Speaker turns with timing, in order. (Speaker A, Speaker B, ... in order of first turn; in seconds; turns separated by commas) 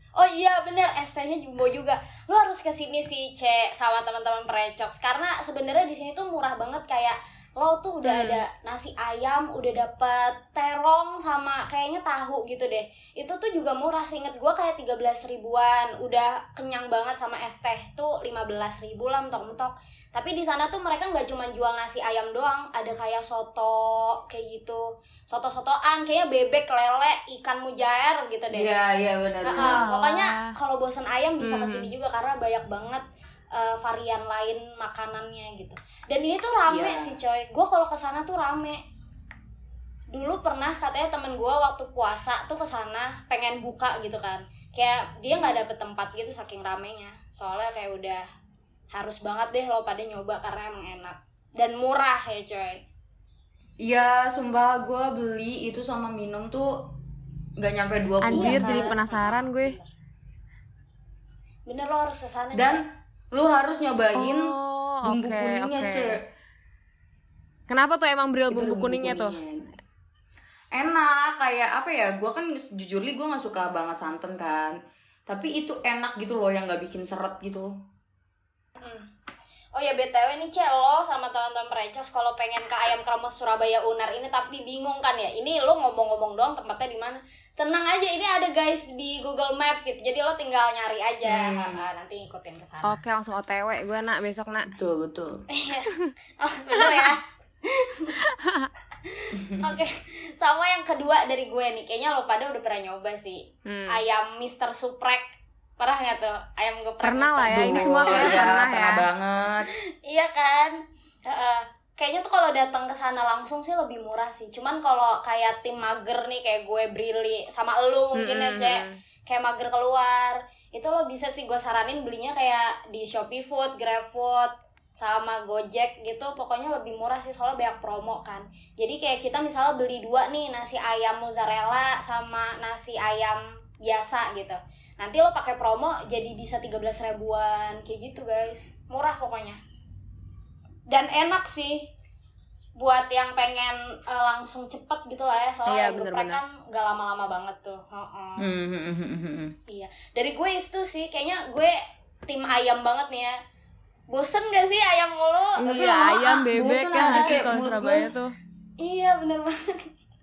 Speaker A: 0.1-28.7, Speaker B: 8.0-8.4, Speaker C: 28.5-29.9, Speaker A: 29.4-38.8, Speaker B: 29.5-30.5, Speaker B: 31.4-31.9, Speaker C: 36.6-37.2, Speaker A: 40.1-48.2, Speaker A: 48.9-52.8, Speaker C: 53.8-56.7, Speaker C: 57.6-59.0, Speaker B: 58.2-59.8, Speaker A: 58.3-59.9, Speaker A: 61.6-62.8, Speaker C: 62.5-64.5, Speaker B: 64.1-66.2, Speaker C: 65.0-66.2, Speaker B: 67.7-69.4, Speaker C: 68.5-69.6, Speaker C: 70.7-74.7, Speaker C: 75.3-77.7, Speaker A: 78.8-79.0, Speaker A: 79.7-93.0, Speaker C: 91.3-91.8, Speaker B: 92.8-94.7, Speaker C: 94.7-95.4, Speaker A: 95.5-97.2, Speaker A: 97.7-98.2, Speaker B: 98.4-98.7, Speaker A: 99.0-105.2, Speaker B: 103.7-104.0, Speaker A: 105.8-108.5, Speaker B: 107.0-109.1, Speaker C: 107.5-109.7, Speaker A: 110.0-139.6, Speaker B: 118.1-119.0, Speaker A: 140.9-141.9, Speaker A: 142.8-148.4, Speaker B: 145.7-146.4, Speaker C: 148.4-149.5, Speaker A: 149.7-151.7, Speaker A: 152.2-153.3, Speaker A: 154.1-157.5, Speaker B: 155.6-158.3, Speaker C: 156.5-158.1, Speaker A: 158.8-159.9